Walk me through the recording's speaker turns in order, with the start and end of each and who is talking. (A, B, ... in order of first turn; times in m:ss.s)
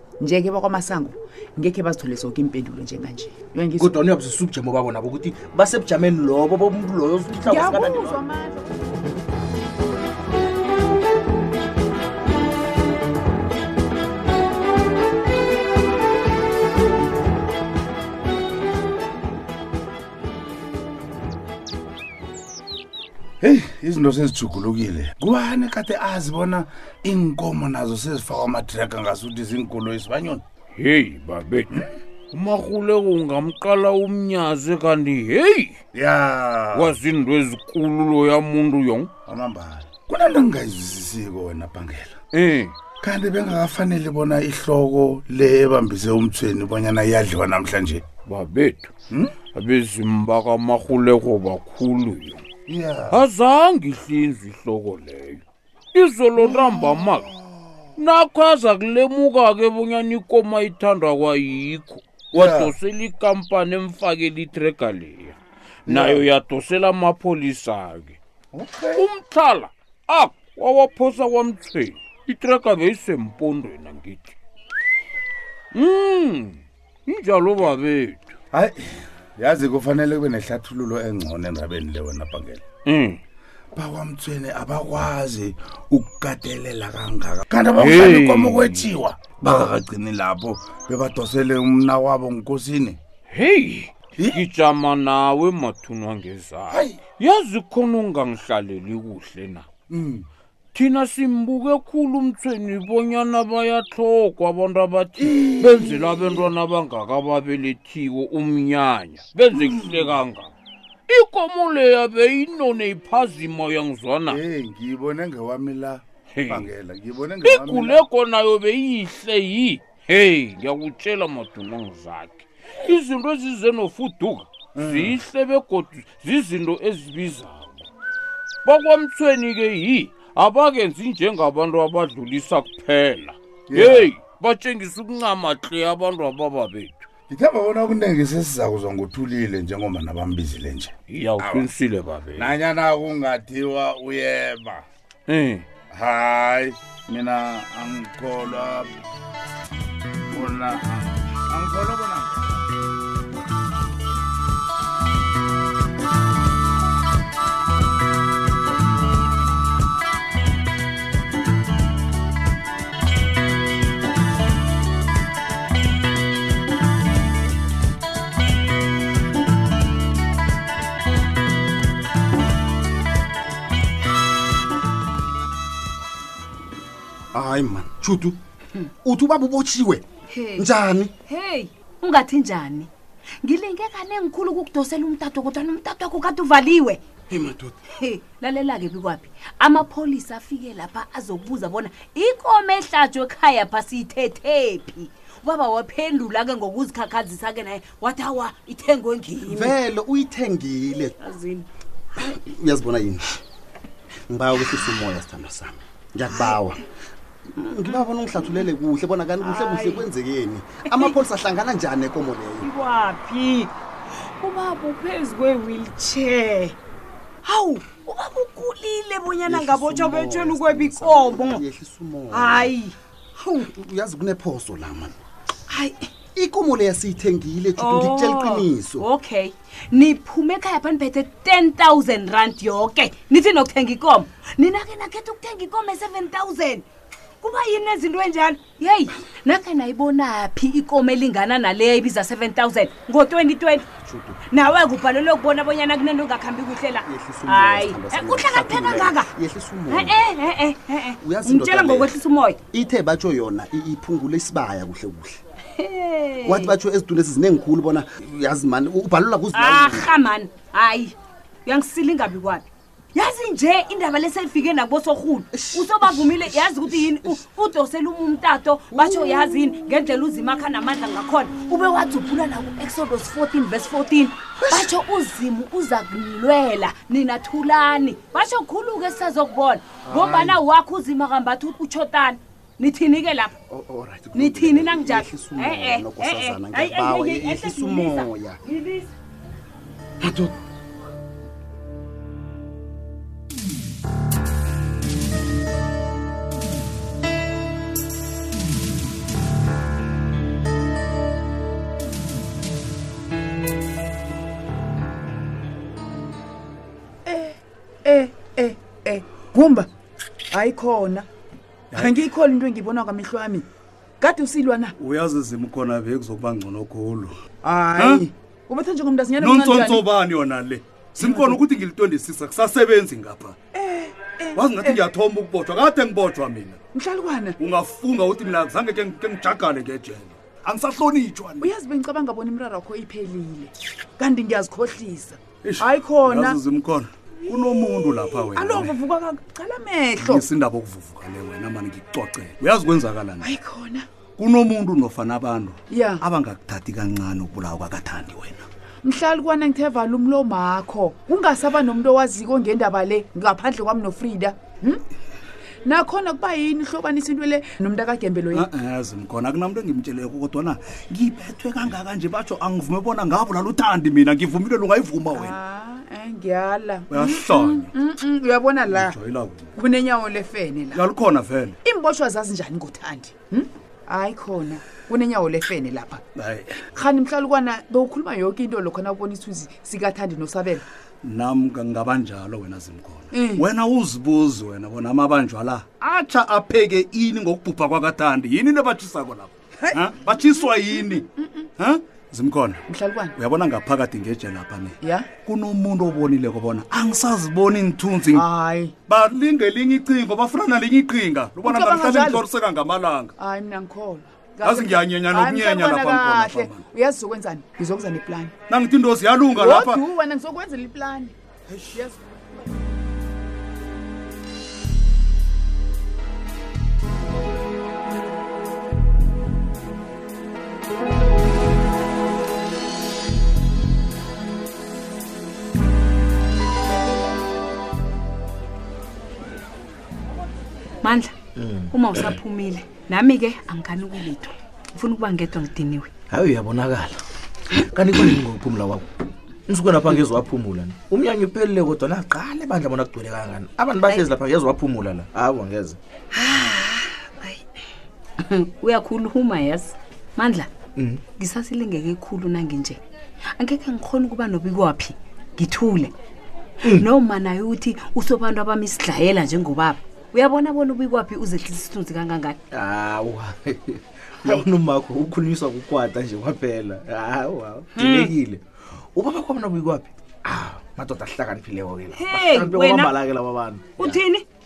0:00.2-0:03.9 A
0:03.8-0:08.2 B
0:07.4-0:09.1 A
0:23.4-0:30.4 C
0:30.8-0:35.8 D
0:36.0-0:36.8 C
0:36.7-0:39.1 D
0:39.3-0:42.1 C
0:42.3-0:42.8 D
0:43.0-0:48.0 C
0:48.2-0:48.9 D
0:49.5-0:52.4 D
0:52.7-0:53.2 C
0:53.1-0:55.4 D
0:55.9-0:57.3 D
0:56.4-0:56.9 C
0:58.0-1:08.2 D
1:05.9-1:06.2 C
1:08.5-1:09.0 C
1:08.9-1:14.3 D
1:15.7-1:18.3 D
1:19.4-1:22.6 C
1:22.8-1:23.2 D
1:23.7-1:33.0 C
1:27.8-1:28.9 D
1:33.3-1:39.6 D
1:39.9-1:40.2 C
1:40.7-1:50.5 D
1:45.2-1:46.4 C
1:51.1-1:54.4 D
1:54.3-1:58.0 C
1:56.3-1:56.7 D
1:57.4-2:07.9 D
2:04.8-2:05.1 C
2:08.6-2:17.0 D
2:13.7-2:14.1 C
2:17.3-2:20.9 C
2:21.1-2:22.5 D
2:22.4-2:24.8 C
2:25.3-2:25.6 D
2:25.9-2:28.9 C
2:30.3-2:32.6 C
2:57.3-2:58.4 E
2:59.0-3:00.0 E
3:00.3-3:00.7 F
3:00.6-3:01.1 E
3:01.3-3:02.9 F
3:03.4-3:07.0 F
3:07.3-3:07.7 E
3:07.9-3:19.8 F
3:19.4-3:21.1 E
3:21.2-3:21.7 F
3:22.2-3:23.4 E
3:24.3-3:26.8 E
3:27.5-3:32.7 E
3:29.4-3:30.0 F
3:30.8-3:31.2 F
3:32.6-3:33.7 F
3:34.4-3:36.8 F
3:37.4-3:41.6 F
3:39.4-3:42.8 E
3:42.3-3:42.9 F
3:43.4-3:45.2 E
3:45.7-3:46.1 F
3:46.3-3:49.1 E
3:47.8-3:56.8 F
3:57.4-4:03.9 F
4:04.0-4:04.3 E
4:04.5-4:09.3 F
4:07.0-4:10.3 E
4:09.9-4:12.6 F
4:11.2-4:12.2 E
4:12.7-4:15.4 E
4:15.8-4:16.8 F
4:16.4-4:20.1 E
4:19.5-4:21.1 F
4:21.6-4:43.5 F
4:25.5-4:27.4 E
4:28.9-4:29.7 E
4:34.6-4:34.9 E
4:40.0-4:40.6 E
4:43.7-4:48.6 E
4:44.3-4:48.3 F
4:50.2-4:50.5 E
5:07.2-5:09.9 A
5:10.5-5:11.3 A
5:11.9-5:13.6 A
5:14.2-5:15.0 A
5:15.0-5:17.3 G
5:17.6-5:20.1 A
5:19.4-5:23.5 G
5:21.2-5:21.6 A
5:23.7-5:25.0 A
5:24.6-5:26.8 G
5:26.9-5:27.6 A
5:27.6-5:31.6 G
5:31.6-5:36.6 A
5:36.3-5:38.8 G
5:37.4-5:40.4 A
5:40.3-5:43.4 G
5:43.4-5:44.0 A
5:44.4-5:48.6 G
5:45.9-5:46.2 A
5:49.0-5:55.0 A
5:55.8-5:58.7 A
5:58.6-6:05.4 G
6:05.3-6:09.2 A
6:07.1-6:07.8 G
6:09.0-6:09.6 G
6:09.7-6:11.0 A
6:11.0-6:11.7 G
6:11.8-6:16.2 A
6:16.4-6:16.7 G
6:16.9-6:20.8 A
6:21.2-6:31.2 G
6:23.3-6:23.6 A
6:30.6-6:31.7 A
6:31.8-6:32.8 G
6:32.9-6:33.3 A
6:33.4-6:34.9 G
6:35.0-6:35.3 A
6:35.5-6:38.4 G
6:38.3-6:38.9 A
6:39.1-6:43.3 G
6:41.6-6:42.5 A
6:43.4-6:48.5 A
6:44.6-6:46.7 G
6:48.7-6:49.9 G
6:49.5-6:51.3 A
7:11.0-7:11.3 F
7:11.6-7:11.9 B
7:11.9-7:16.1 F
7:16.3-7:17.2 B
7:17.7-7:19.0 B
7:19.7-7:26.0 B
7:26.3-7:27.6 F
7:28.4-7:30.7 F
7:31.0-7:31.2 B
7:31.4-7:33.0 F
7:33.6-7:36.1 F
7:36.9-7:42.6 F
7:42.7-7:48.6 B
7:48.0-7:48.3 F
7:49.2-7:54.2 B
7:52.1-7:53.1 F
7:54.0-7:54.4 F